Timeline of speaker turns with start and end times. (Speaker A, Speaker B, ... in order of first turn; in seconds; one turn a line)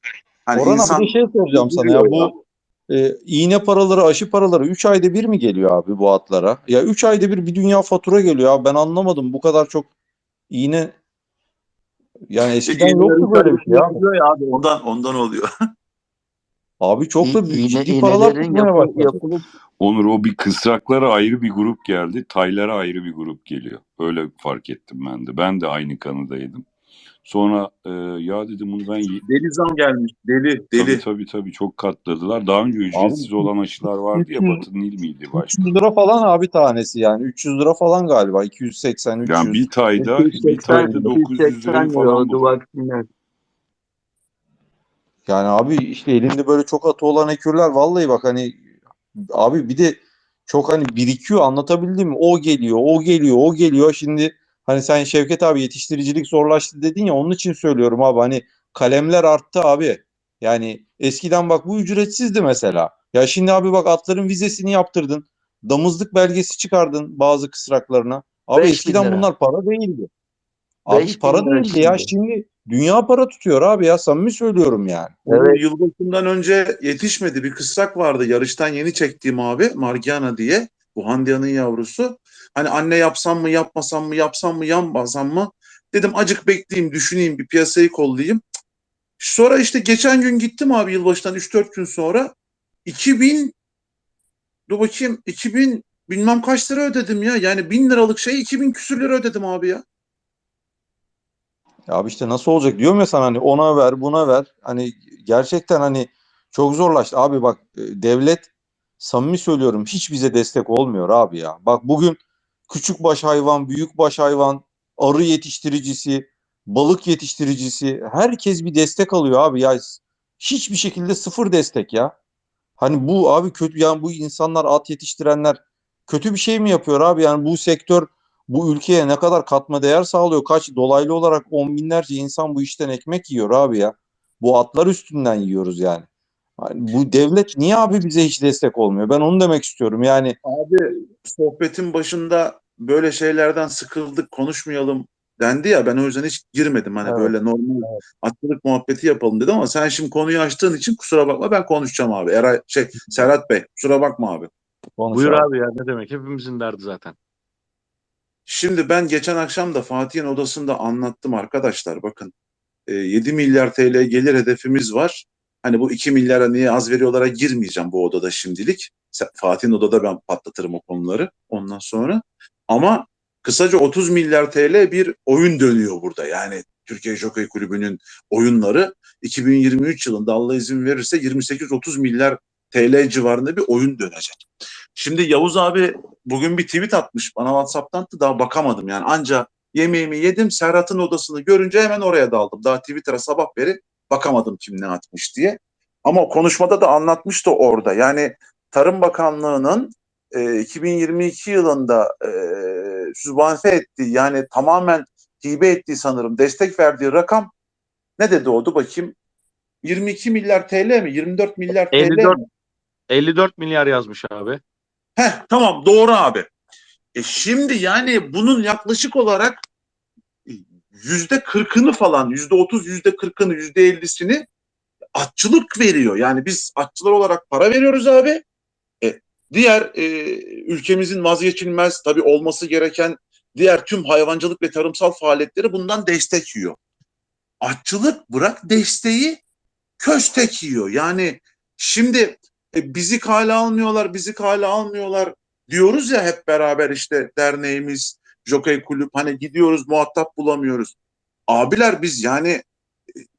Speaker A: 0.5-2.4
Speaker B: 0.6-2.3
Speaker B: 2.9-9.9
Speaker B: 10.5-11.0
Speaker B: 12.3-14.0
Speaker A: 12.7-15.4
Speaker B: 16.8-19.2
Speaker C: 17.2-19.4
Speaker D: 19.8-26.7
Speaker D: 27.2-29.2
Speaker A: 29.2-31.0
Speaker D: 30.7-35.6
Speaker B: 32.9-33.5
Speaker B: 34.1-34.6
Speaker B: 35.3-39.6
Speaker D: 39.2-42.6
Speaker C: 40.0-43.0
Speaker B: 40.7-41.0
Speaker B: 45.3-48.6
Speaker B: 49.3-70.1
Speaker C: 68.5-69.3
Speaker B: 70.9-75.2
Speaker C: 70.9-72.1
Speaker C: 75.3-75.6
Speaker A: 75.3-88.4
Speaker A: 89.2-92.3
Speaker A: 92.9-93.5
Speaker A: 94.7-99.8
Speaker B: 101.9-112.2
Speaker B: 112.7-122.1
Speaker B: 122.8-136.1
Speaker B: 136.6-140.4
Speaker A: 140.4-154.5
Speaker B: 147.0-148.0
Speaker B: 155.0-155.5
Speaker E: 155.1-157.2
Speaker A: 158.5-162.3
Speaker A: 162.9-184.4
Speaker A: 185.0-207.5
Speaker A: 208.2-209.2
Speaker A: 209.8-212.4
Speaker E: 211.9-212.4
Speaker E: 213.1-214.6
Speaker A: 215.2-216.5
Speaker A: 217.2-219.6
Speaker A: 220.5-224.4
Speaker A: 225.2-228.4
Speaker A: 229.0-236.8
Speaker A: 237.6-239.4
Speaker A: 240.0-250.9
Speaker A: 251.5-252.6